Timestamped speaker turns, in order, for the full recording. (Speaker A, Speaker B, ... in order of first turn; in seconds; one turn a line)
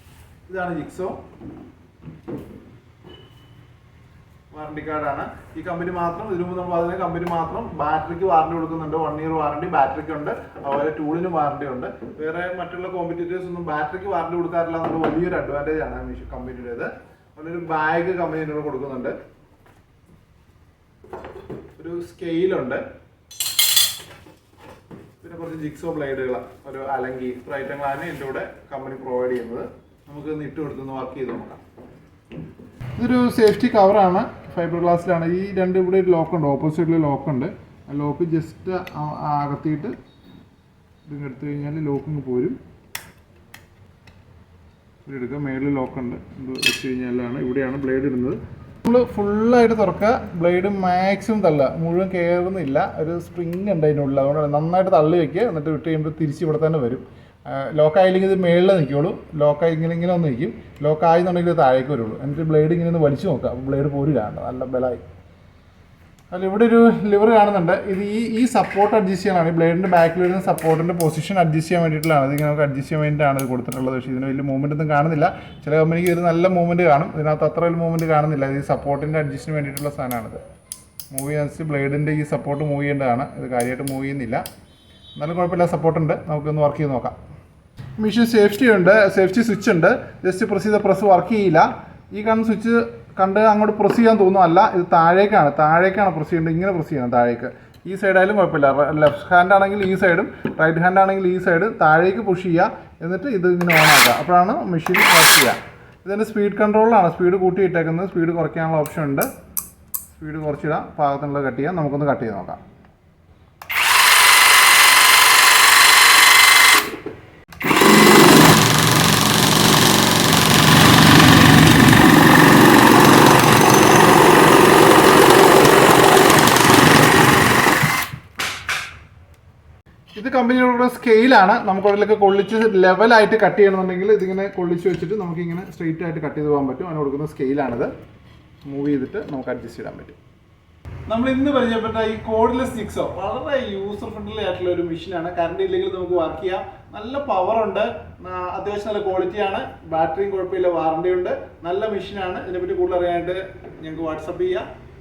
Speaker A: 0.5-1.2
Speaker A: 4.5-19.2
Speaker A: 21.8-22.8
Speaker A: 25.2-31.6
Speaker A: 33.0-40.0
Speaker A: 41.1-42.6
Speaker A: 45.1-65.0
Speaker A: 66.3-80.4
Speaker A: 81.1-84.4
Speaker A: 85.2-87.2
Speaker A: 88.0-109.3
Speaker A: 110.1-112.6
Speaker A: 130.2-137.9
Speaker A: 138.7-140.2
Speaker A: 141.1-154.7